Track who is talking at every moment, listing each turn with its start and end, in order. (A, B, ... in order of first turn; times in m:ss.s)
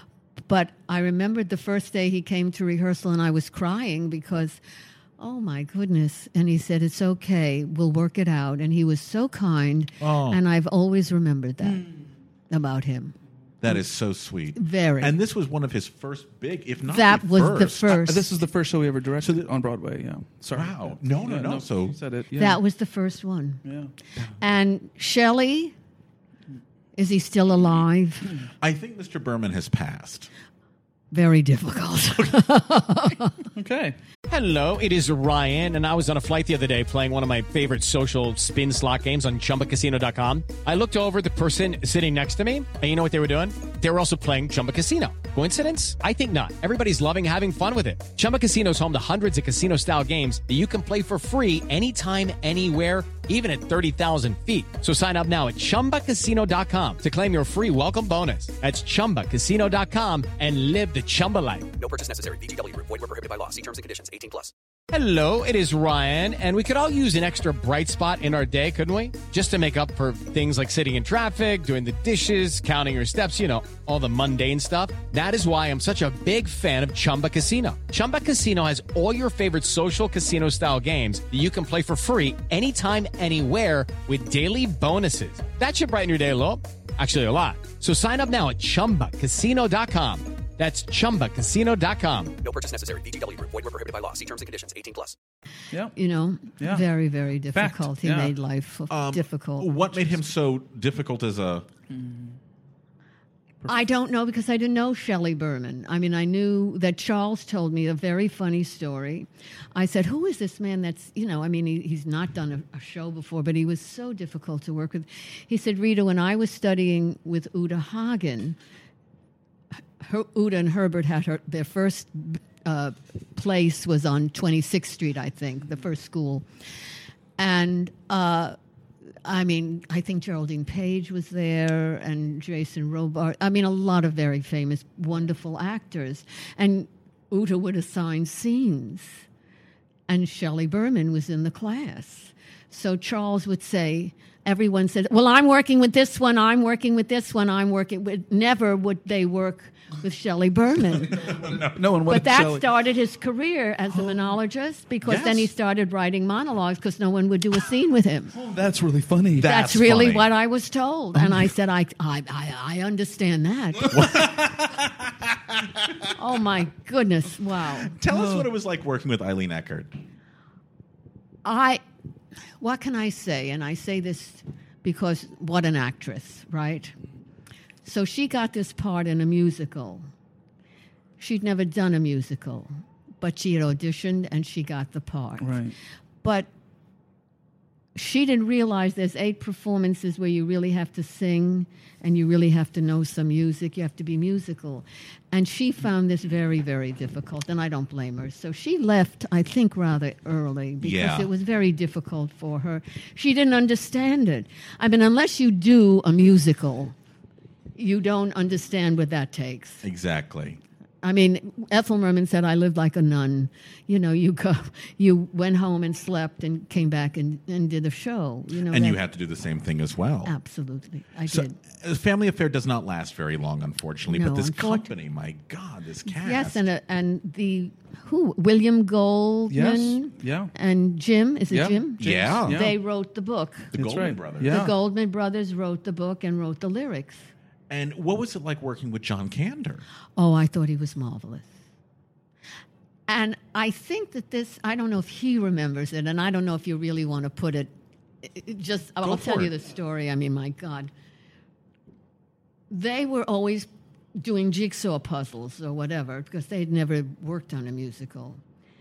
0:00.5-0:04.6 A
0:05.2-0:11.9 A
0:10.0-0:10.4 B
0:12.5-0:13.2 A
0:13.6-0:18.2 B
0:14.6-0:15.2 A
0:16.9-0:18.3 A
0:17.9-0:22.6 C
0:19.2-0:19.5 B
0:20.5-0:22.0 B
0:22.4-0:23.6 A
0:23.6-0:23.9 C
0:24.4-0:25.7 A
0:27.0-0:28.3 A
0:28.6-0:30.3 B
0:31.1-0:33.4 A
0:33.5-0:34.0 C
0:34.3-1:01.7 D
1:01.8-1:04.5 E
1:04.9-1:32.4 D
1:32.4-1:35.2 E
1:36.0-1:39.7 A
1:36.6-1:36.9 C
1:37.5-1:38.3 C
1:38.9-1:41.7 B
1:41.9-1:42.4 C
1:43.7-1:58.6 A
2:00.0-2:06.4 A
2:07.4-2:08.6 A
2:09.2-2:19.2 A
2:20.1-2:31.4 A
2:31.3-2:31.8 B
2:31.3-2:32.7 C
2:32.1-2:38.3 A
2:35.0-2:35.5 B
2:38.3-2:39.5 C
2:39.4-2:40.3 B
2:39.4-2:44.3 A
2:43.9-2:45.9 B
2:46.1-2:48.0 A
2:48.0-2:49.9 B
2:48.1-2:48.5 C
2:51.4-2:51.8 A
2:52.6-2:56.9 A
2:57.8-3:00.1 A
3:01.2-3:02.7 A
3:03.2-3:05.6 A
3:05.4-3:05.7 C
3:06.2-3:06.5 A
3:08.0-3:27.0 A
3:20.8-3:21.3 B
3:27.8-3:29.8 A
3:29.8-3:30.6 B
3:31.0-3:39.0 A
3:38.7-3:40.3 B
3:40.2-3:41.6 A
3:41.3-3:46.6 B
3:44.1-3:44.9 A
3:46.1-3:53.7 A
3:49.5-3:50.5 C
3:51.5-3:51.8 C
3:52.0-3:52.7 B
3:52.4-3:52.7 C
3:53.7-3:54.6 B
3:53.8-3:54.7 C
3:54.4-3:57.3 A
3:57.7-3:59.8 B
4:00.2-4:01.5 A
4:03.1-4:07.7 A
4:08.2-4:10.9 A
4:09.0-4:09.5 B
4:12.7-4:18.4 A